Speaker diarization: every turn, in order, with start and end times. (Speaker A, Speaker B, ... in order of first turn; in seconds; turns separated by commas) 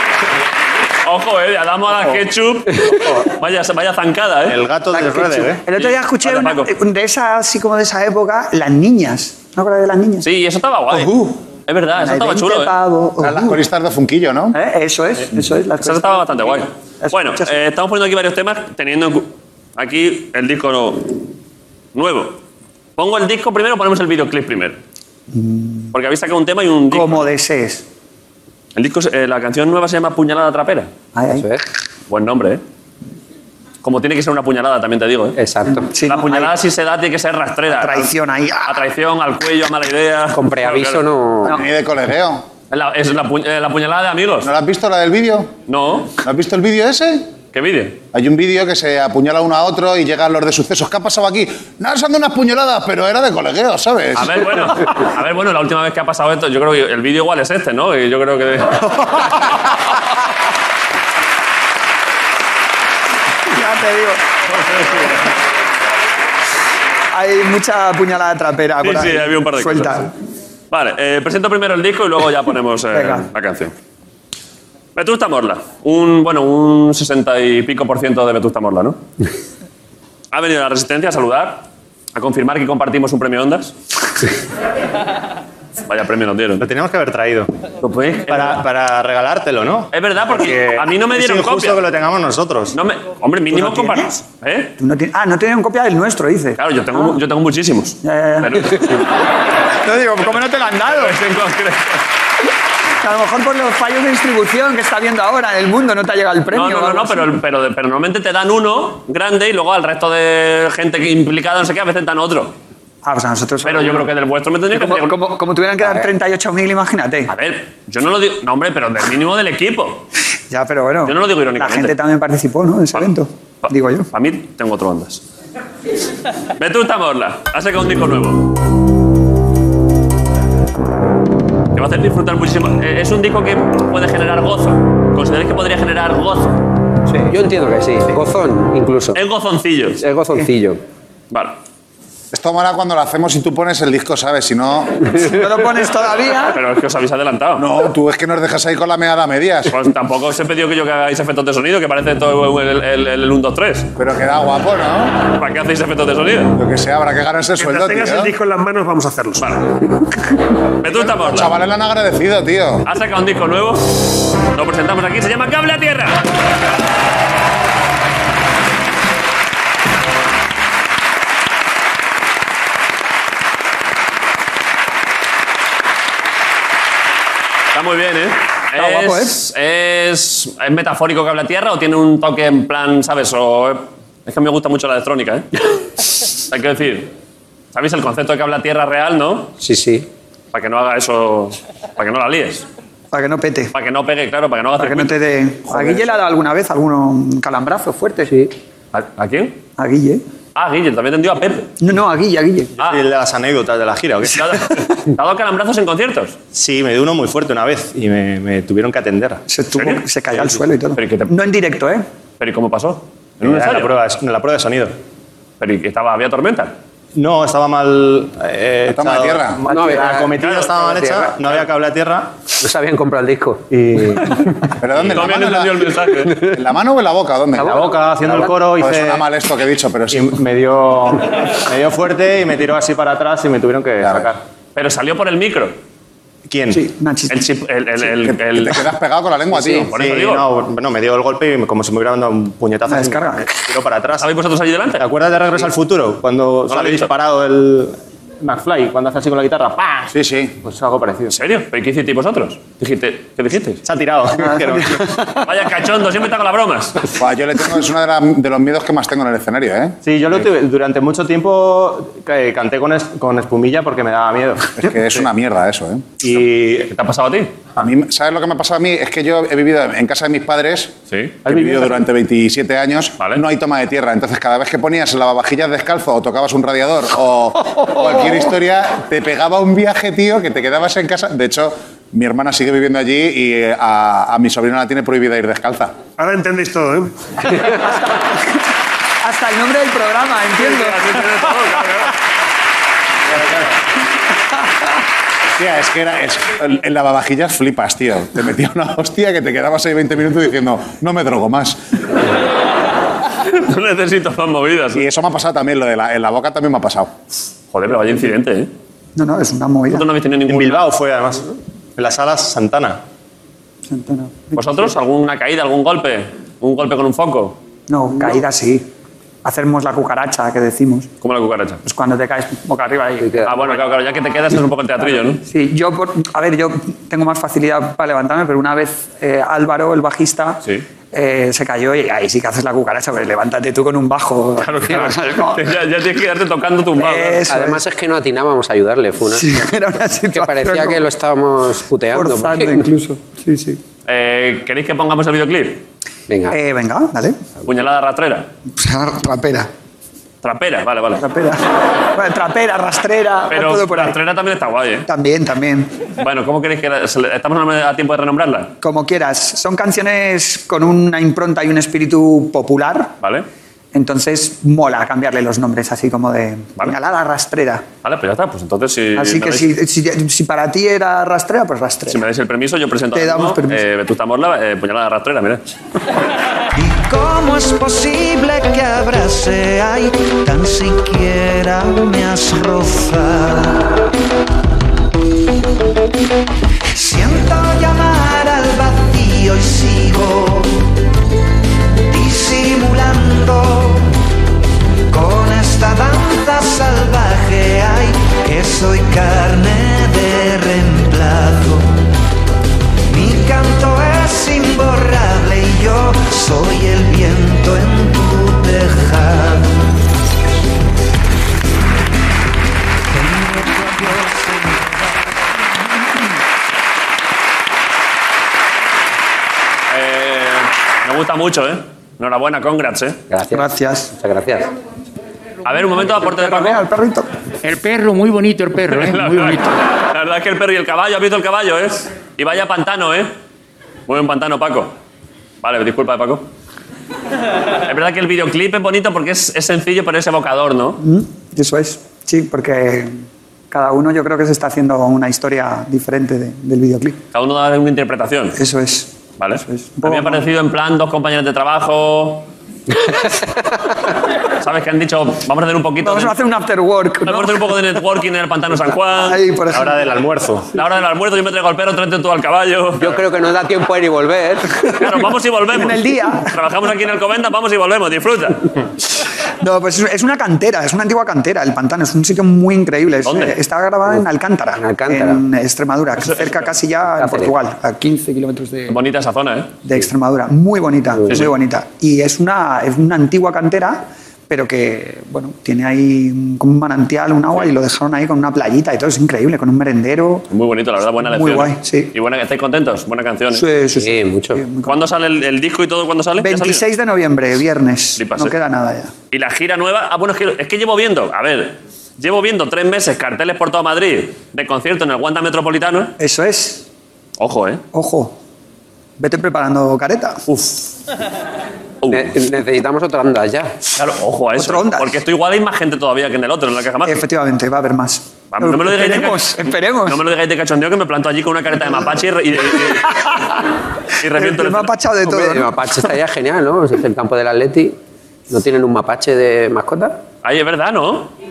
Speaker A: 1.0-4.6, Speaker B: 4.5-5.7, Speaker C: 4.9-10.2, Speaker A: 5.7-6.7, Speaker A: 10.2-12.7, Speaker C: 10.9-11.3, Speaker C: 11.9-13.6, Speaker D: 13.2-14.6, Speaker C: 14.5-17.5, Speaker A: 15.8-21.2, Speaker A: 21.9-22.4, Speaker A: 23.0-24.8, Speaker C: 25.3-25.9, Speaker A: 25.9-27.3, Speaker C: 26.9-27.8, Speaker A: 28.8-30.9, Speaker C: 31.1-31.5, Speaker E: 31.3-31.6, Speaker A: 32.1-32.6, Speaker A: 33.8-35.4, Speaker E: 35.4-35.9, Speaker C: 35.7-36.5, Speaker A: 36.0-38.1, Speaker C: 37.7-38.8, Speaker A: 38.6-41.0, Speaker E: 40.3-41.5, Speaker D: 41.5-42.4, Speaker A: 42.7-44.5, Speaker D: 44.4-45.5, Speaker A: 45.7-46.1, Speaker D: 46.2-47.3, Speaker A: 47.5-48.0, Speaker D: 48.1-54.5, Speaker A: 54.1-59.4, Speaker C: 63.5-64.2, Speaker A: 64.5-65.2, Speaker C: 67.1-70.1, Speaker A: 68.8-70.0, Speaker A: 70.7-73.7, Speaker C: 72.9-73.3, Speaker A: 74.9-79.0, Speaker A: 80.3-83.7, Speaker A: 85.9-86.7, Speaker B: 86.6-87.5, Speaker A: 87.8-88.6, Speaker B: 88.3-92.8, Speaker A: 89.9-91.8, Speaker A: 92.7-94.7, Speaker C: 93.7-94.0, Speaker C: 94.8-97.2, Speaker A: 96.6-99.2, Speaker C: 98.0-99.1, Speaker C: 99.7-101.2, Speaker A: 100.7-102.0, Speaker C: 103.0-107.3, Speaker A: 106.5-112.5, Speaker C: 113.0-114.1, Speaker A: 113.6-115.2, Speaker C: 114.7-117.3, Speaker A: 117.3-120.0, Speaker C: 120.5-124.1, Speaker A: 121.0-121.9, Speaker A: 123.6-125.2, Speaker A: 126.6-128.5, Speaker A: 131.7-136.6, Speaker E: 137.3-139.2, Speaker A: 139.1-140.0, Speaker E: 140.0-140.8, Speaker A: 141.3-141.6, Speaker D: 142.3-144.9, Speaker C: 145.2-146.6, Speaker A: 146.5-147.7, Speaker D: 147.6-149.7, Speaker A: 149.7-153.9, Speaker D: 154.0-155.2, Speaker A: 155.3-156.6, Speaker D: 156.6-158.3, Speaker F: 157.6-159.6, Speaker A: 159.4-159.7, Speaker A: 160.8-161.5, Speaker D: 160.8-162.8, Speaker A: 162.8-166.2, Speaker A: 177.7-185.5, Speaker C: 178.8-179.3, Speaker A: 186.4-187.1, Speaker A: 187.7-189.5, Speaker E: 189.6-190.1, Speaker A: 190.5-192.6, Speaker C: 193.1-193.7, Speaker A: 193.7-195.2, Speaker C: 194.8-198.3, Speaker A: 198.9-199.6, Speaker C: 199.8-200.2, Speaker A: 200.5-201.7, Speaker C: 201.8-202.7, Speaker B: 202.8-204.6, Speaker A: 204.3-206.3, Speaker B: 206.5-209.4, Speaker C: 209.5-212.0, Speaker A: 209.7-210.0, Speaker A: 210.9-211.4, Speaker A: 212.4-213.9, Speaker B: 213.4-214.9, Speaker A: 215.6-216.7, Speaker B: 217.1-222.3, Speaker D: 218.9-219.6, Speaker E: 219.7-220.3, Speaker A: 220.3-220.9, Speaker E: 222.6-223.6, Speaker B: 223.7-224.4, Speaker D: 224.8-230.3, Speaker A: 225.0-226.4, Speaker B: 227.6-229.2, Speaker B: 230.1-234.4, Speaker D: 234.0-234.3, Speaker A: 234.7-235.7, Speaker B: 236.5-236.8, Speaker C: 236.7-237.4, Speaker A: 237.3-238.8, Speaker D: 238.2-239.9, Speaker B: 239.6-244.3, Speaker A: 239.8-240.4, Speaker C: 242.9-243.5, Speaker A: 244.2-245.0, Speaker B: 245.0-250.1, Speaker A: 246.7-247.1, Speaker D: 250.1-250.6, Speaker B: 250.6-251.3, Speaker A: 251.3-253.8, Speaker B: 253.8-255.3, Speaker A: 255.4-257.0, Speaker D: 257.1-259.9, Speaker B: 260.0-264.7, Speaker D: 264.8-266.1, Speaker B: 266.2-266.9, Speaker A: 266.9-267.5, Speaker D: 267.8-270.9, Speaker A: 271.1-271.4, Speaker D: 271.4-286.0, Speaker F: 286.2-287.2, Speaker C: 289.2-291.6, Speaker A: 290.6-292.1, Speaker D: 295.5-301.8, Speaker A: 303.4-305.0, Speaker D: 304.9-307.1, Speaker A: 307.7-308.7, Speaker C: 309.1-310.1, Speaker A: 309.9-310.8, Speaker B: 310.5-313.0, Speaker C: 313.9-314.9, Speaker A: 314.5-317.6, Speaker C: 317.9-318.8, Speaker C: 319.4-321.1, Speaker A: 321.2-321.8, Speaker C: 321.8-323.8, Speaker A: 323.4-325.4, Speaker C: 325.4-330.6, Speaker C: 331.1-335.7, Speaker A: 334.6-337.4, Speaker C: 336.9-337.9, Speaker E: 337.5-339.4, Speaker C: 339.3-341.1, Speaker E: 340.3-342.9, Speaker C: 342.1-343.8, Speaker A: 344.1-345.8, Speaker E: 346.3-346.6, Speaker C: 346.5-347.4, Speaker A: 347.6-348.5, Speaker C: 348.7-349.7, Speaker A: 350.4-351.2, Speaker C: 351.2-354.1, Speaker A: 353.5-355.1, Speaker C: 355.1-356.0, Speaker A: 356.2-358.7, Speaker C: 358.8-363.1, Speaker C: 363.9-367.8, Speaker A: 368.0-369.7, Speaker C: 369.1-372.2, Speaker A: 372.1-375.6, Speaker C: 373.1-373.8, Speaker G: 376.7-383.8, Speaker G: 386.9-390.8, Speaker G: 392.1-394.0, Speaker G: 395.1-401.9, Speaker G: 403.1-409.7, Speaker G: 413.4-414.4, Speaker A: 419.9-423.2, Speaker E: 423.3-424.7, Speaker C: 423.5-424.1, Speaker A: 425.6-426.8, Speaker C: 425.9-427.3, Speaker H: 427.6-429.7, Speaker A: 428.9-433.3, Speaker A: 434.1-434.9, Speaker A: 435.6-436.5, Speaker A: 437.8-441.0, Speaker C: 441.0-447.2, Speaker A: 447.3-448.6, Speaker C: 448.6-450.5, Speaker A: 449.4-452.5, Speaker A: 454.6-456.3, Speaker C: 456.0-457.8, Speaker A: 457.2-459.4, Speaker C: 459.1-460.0, Speaker B: 459.7-460.7, Speaker A: 460.7-463.2, Speaker E: 463.0-464.8, Speaker A: 465.0-468.6, Speaker C: 465.7-466.5, Speaker C: 469.6-479.0, Speaker A: 473.2-473.6, Speaker E: 474.8-475.4, Speaker A: 476.2-476.7, Speaker E: 477.2-477.5, Speaker A: 478.9-479.7, Speaker C: 479.8-490.5, Speaker A: 490.5-493.6, Speaker C: 491.2-492.1, Speaker C: 493.5-495.1, Speaker E: 493.9-494.6, Speaker A: 494.8-496.8, Speaker C: 496.4-499.1, Speaker A: 498.2-498.5, Speaker A: 499.3-506.1, Speaker C: 506.2-506.8, Speaker A: 507.4-507.8, Speaker C: 507.9-508.4, Speaker C: 509.2-510.4, Speaker A: 510.5-510.9, Speaker A: 512.0-512.3, Speaker E: 512.1-513.7, Speaker A: 513.9-517.2, Speaker C: 514.5-515.2, Speaker C: 517.0-520.2, Speaker A: 518.5-523.4, Speaker A: 524.2-524.9, Speaker C: 524.3-526.1, Speaker E: 525.2-528.0, Speaker E: 528.5-530.2, Speaker A: 530.4-531.3